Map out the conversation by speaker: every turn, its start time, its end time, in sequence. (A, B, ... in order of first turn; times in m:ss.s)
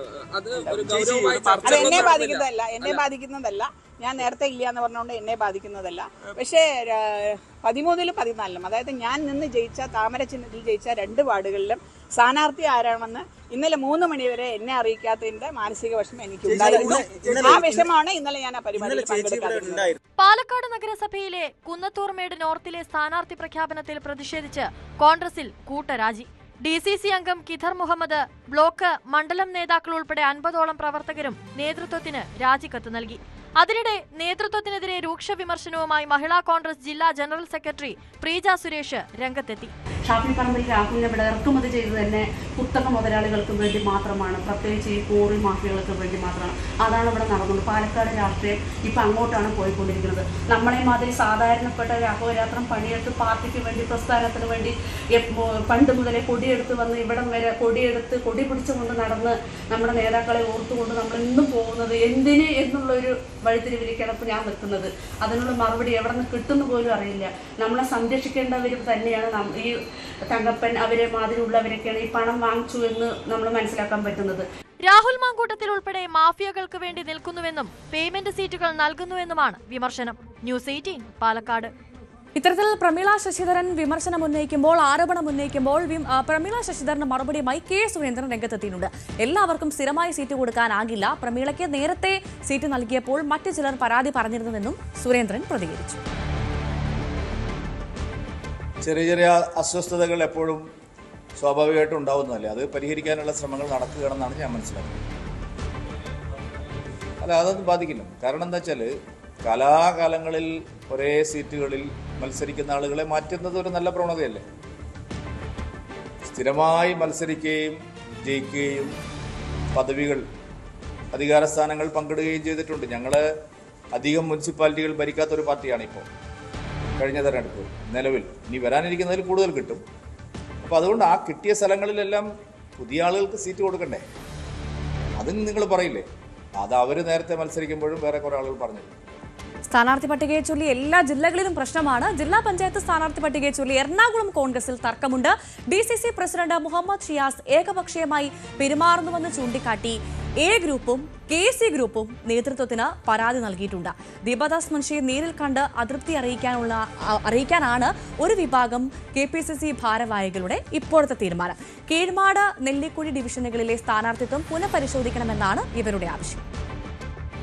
0:00.4-0:02.4 A
0:00.5-0:19.9 B
0:20.2-0:39.7 C
0:40.1-1:09.8 D
1:10.3-1:14.5 D
1:14.8-1:21.7 C
1:22.4-1:36.0 E
1:38.8-1:40.6 F
1:41.4-1:45.0 F
1:47.2-1:48.9 F
1:49.4-1:54.4 F
1:56.3-1:58.9 F
1:59.7-2:00.2 F
2:01.1-2:03.2 F
2:04.0-2:06.1 F
2:07.0-2:09.8 F
2:10.6-2:12.3 F
2:12.8-2:14.0 F
2:15.2-2:16.0 F
2:16.6-2:18.9 F
2:19.7-2:46.4 E